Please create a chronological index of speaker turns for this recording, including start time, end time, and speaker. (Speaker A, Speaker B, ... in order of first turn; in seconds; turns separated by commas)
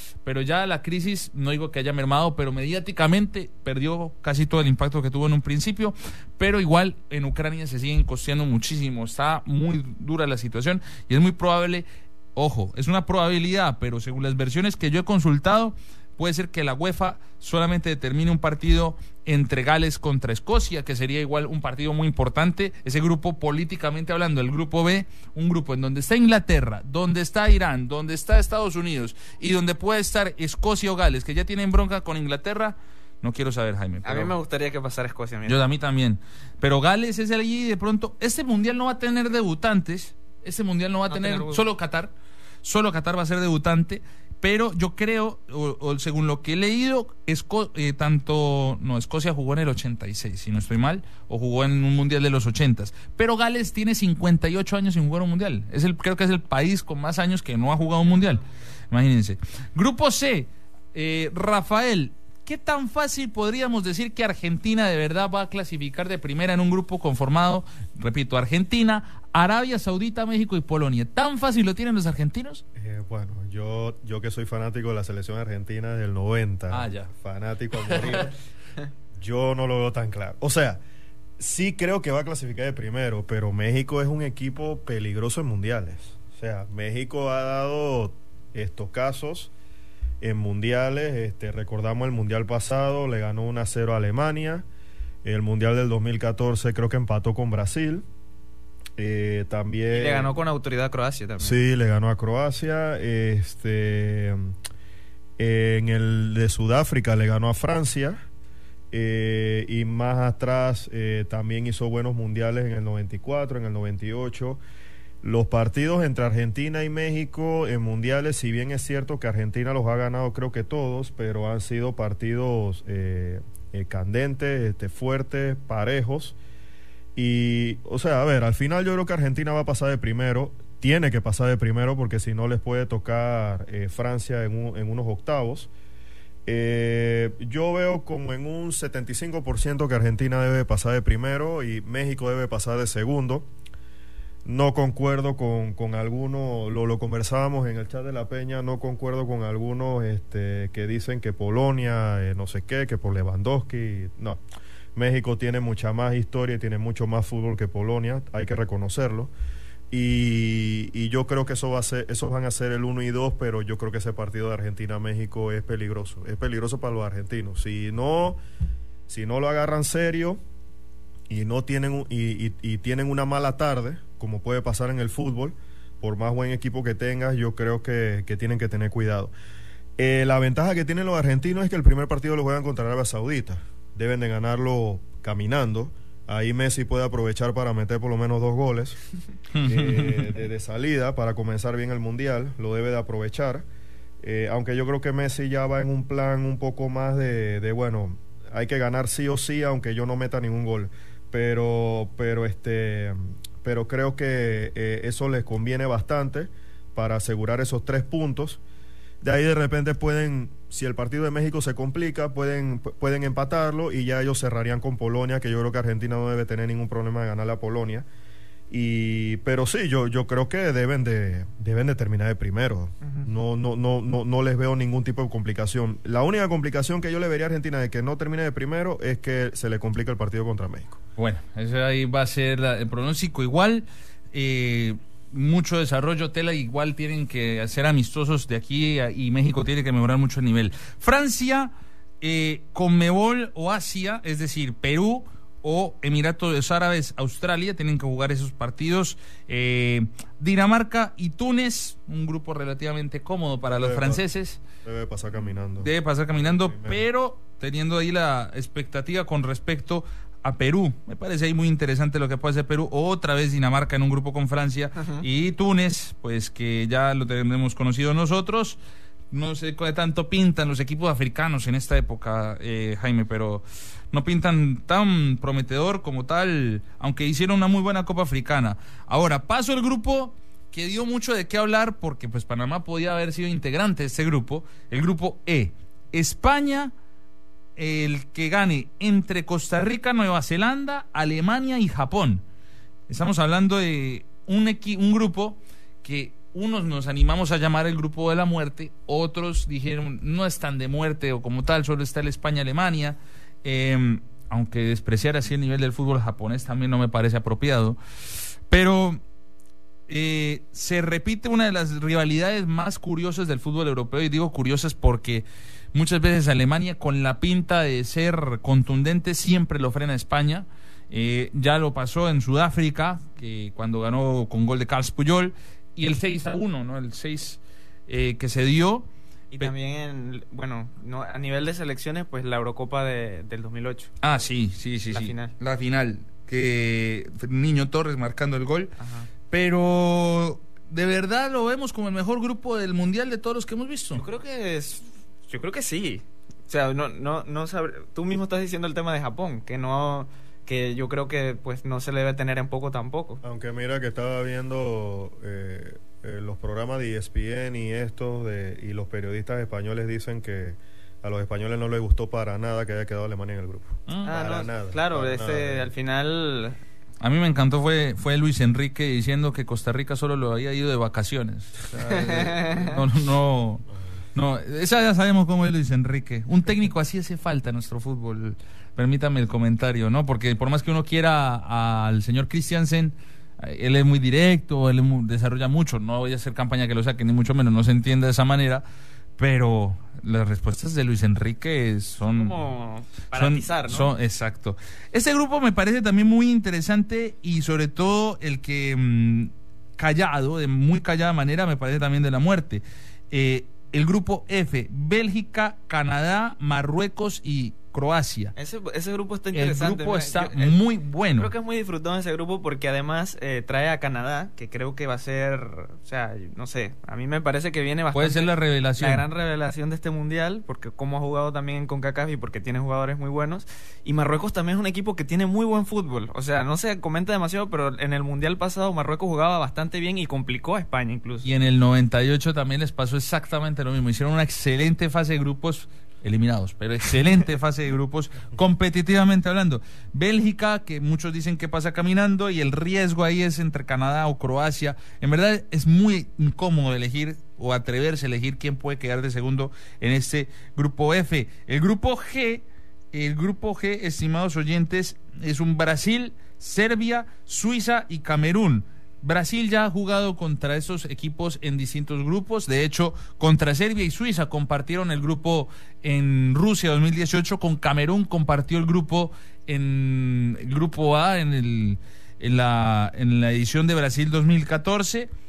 Speaker A: 0.2-34.3, Speaker B: 34.0-35.6, Speaker A: 35.5-42.1, Speaker B: 41.1-41.6, Speaker A: 42.6-72.6, Speaker C: 72.8-78.3, Speaker A: 76.7-77.1, Speaker A: 77.8-78.2, Speaker C: 79.2-80.8, Speaker C: 81.4-89.5, Speaker C: 90.2-94.7, Speaker C: 95.2-98.0, Speaker C: 99.0-100.3, Speaker B: 99.9-101.6, Speaker C: 101.4-104.5, Speaker C: 105.4-108.2, Speaker C: 108.9-114.6, Speaker C: 115.2-126.4, Speaker C: 127.2-135.7, Speaker C: 136.5-143.5, Speaker C: 144.4-154.4, Speaker C: 154.9-159.3, Speaker C: 159.9-168.4, Speaker C: 169.1-170.4, Speaker C: 171.3-179.3, Speaker C: 180.0-189.0, Speaker A: 189.5-190.3, Speaker C: 189.6-193.7, Speaker C: 194.2-208.6, Speaker C: 209.2-218.1, Speaker C: 218.7-231.0, Speaker A: 231.2-254.6, Speaker C: 253.7-254.2, Speaker C: 254.8-257.0, Speaker A: 255.8-268.8, Speaker A: 269.3-286.9, Speaker A: 287.8-292.4, Speaker A: 293.1-308.0, Speaker A: 308.7-309.2, Speaker A: 310.1-329.1, Speaker B: 329.5-334.1, Speaker A: 334.2-338.9, Speaker B: 335.1-335.5, Speaker B: 339.0-339.3, Speaker A: 339.5-344.2, Speaker B: 344.1-353.4, Speaker C: 353.4-365.9, Speaker B: 364.2-366.8, Speaker A: 367.2-388.8, Speaker B: 372.1-373.0, Speaker A: 389.4-392.6, Speaker B: 392.3-394.1, Speaker A: 393.4-408.5, Speaker B: 408.6-410.8, Speaker A: 409.5-411.5, Speaker B: 411.4-431.5, Speaker A: 418.1-419.2, Speaker A: 431.4-475.3